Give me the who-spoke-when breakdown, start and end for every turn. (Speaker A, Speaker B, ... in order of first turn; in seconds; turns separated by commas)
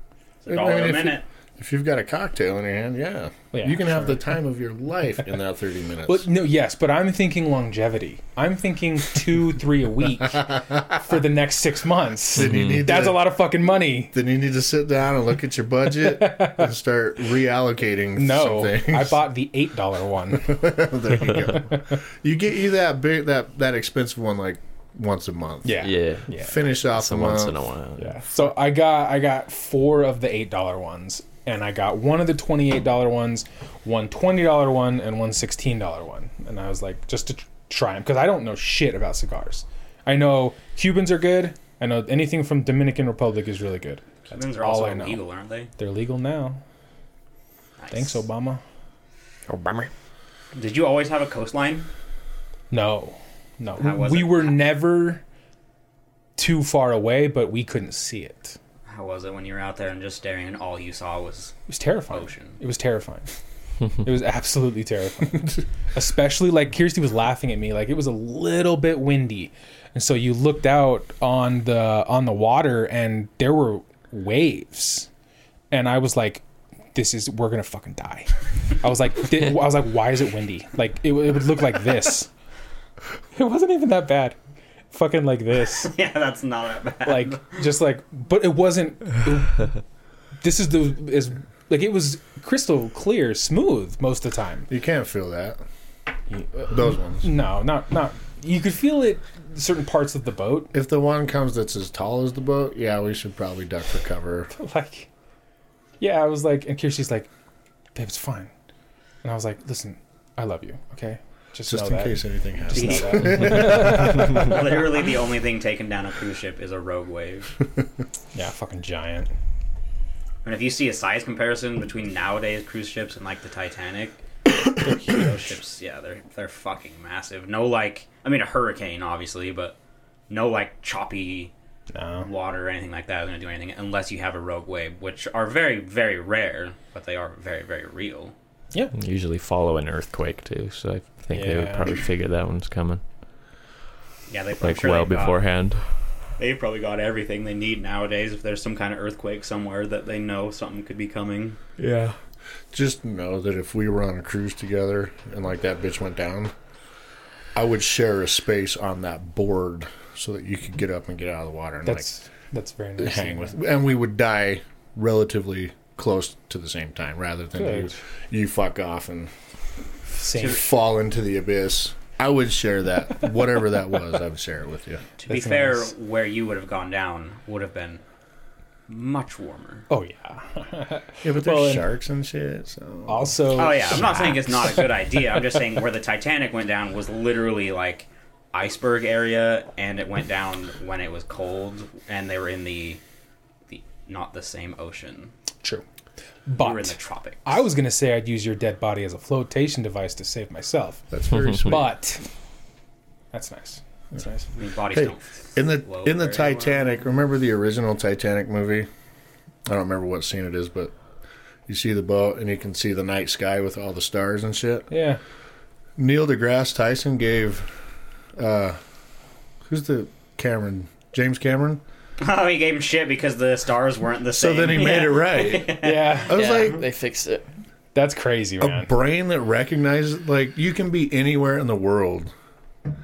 Speaker A: 0.4-1.2, Speaker B: 0.5-6.2, Speaker C: 3.5-4.2, Speaker C: 6.1-14.2, Speaker B: 10.5-10.8, Speaker B: 12.3-13.3, Speaker D: 12.4-12.8, Speaker B: 14.1-19.2, Speaker C: 15.9-16.7, Speaker C: 18.2-20.7, Speaker B: 20.4-27.6, Speaker C: 21.4-22.0, Speaker C: 25.6-26.6, Speaker D: 25.8-28.1, Speaker C: 28.0-45.2, Speaker A: 44.3-45.7, Speaker C: 45.8-46.6, Speaker A: 47.8-48.2, Speaker C: 47.9-48.6, Speaker D: 49.5-49.9, Speaker A: 50.5-51.9, Speaker C: 52.7-55.2, Speaker A: 53.8-54.6, Speaker C: 56.4-58.6, Speaker A: 58.9-62.6, Speaker C: 61.7-63.3, Speaker C: 64.0-75.1, Speaker C: 75.7-76.4, Speaker C: 76.9-82.3, Speaker C: 83.3-84.4, Speaker C: 84.9-85.9, Speaker A: 85.8-87.6, Speaker C: 87.0-89.7, Speaker C: 90.4-94.7, Speaker B: 94.7-95.6, Speaker C: 96.6-100.7, Speaker B: 96.7-97.3, Speaker B: 100.7-104.5, Speaker C: 104.5-105.1, Speaker C: 106.0-107.3, Speaker C: 108.0-108.5, Speaker C: 109.2-112.2, Speaker B: 111.7-114.5, Speaker C: 112.7-114.7, Speaker A: 112.7-117.5, Speaker C: 118.3-119.3, Speaker A: 120.5-124.2, Speaker A: 125.0-129.8, Speaker A: 130.3-131.5, Speaker C: 131.9-132.3, Speaker A: 132.2-138.3, Speaker D: 138.9-143.0, Speaker C: 141.3-141.9, Speaker A: 144.3-145.4, Speaker D: 144.6-145.8, Speaker A: 146.4-151.6, Speaker D: 151.8-152.2, Speaker B: 152.7-156.5, Speaker B: 157.6-162.1, Speaker C: 161.8-163.6, Speaker B: 163.0-169.3, Speaker C: 167.6-167.9, Speaker C: 170.1-170.6, Speaker B: 170.4-175.1, Speaker A: 175.2-178.0, Speaker C: 175.3-175.9, Speaker A: 178.9-179.9, Speaker C: 179.9-181.9, Speaker B: 181.2-183.7, Speaker C: 183.1-184.9, Speaker A: 183.6-193.0, Speaker A: 193.7-195.3, Speaker C: 196.5-202.2, Speaker A: 196.6-197.6, Speaker B: 201.1-201.9, Speaker C: 203.3-204.5, Speaker A: 204.6-206.8, Speaker B: 204.9-208.9, Speaker B: 209.7-210.9, Speaker B: 211.7-214.9, Speaker C: 214.9-215.2, Speaker B: 216.0-217.7, Speaker B: 218.4-218.8, Speaker B: 219.7-221.8, Speaker A: 222.2-226.7, Speaker B: 224.3-226.8, Speaker C: 225.8-226.4, Speaker D: 226.3-227.5, Speaker C: 227.9-228.9, Speaker B: 228.6-232.3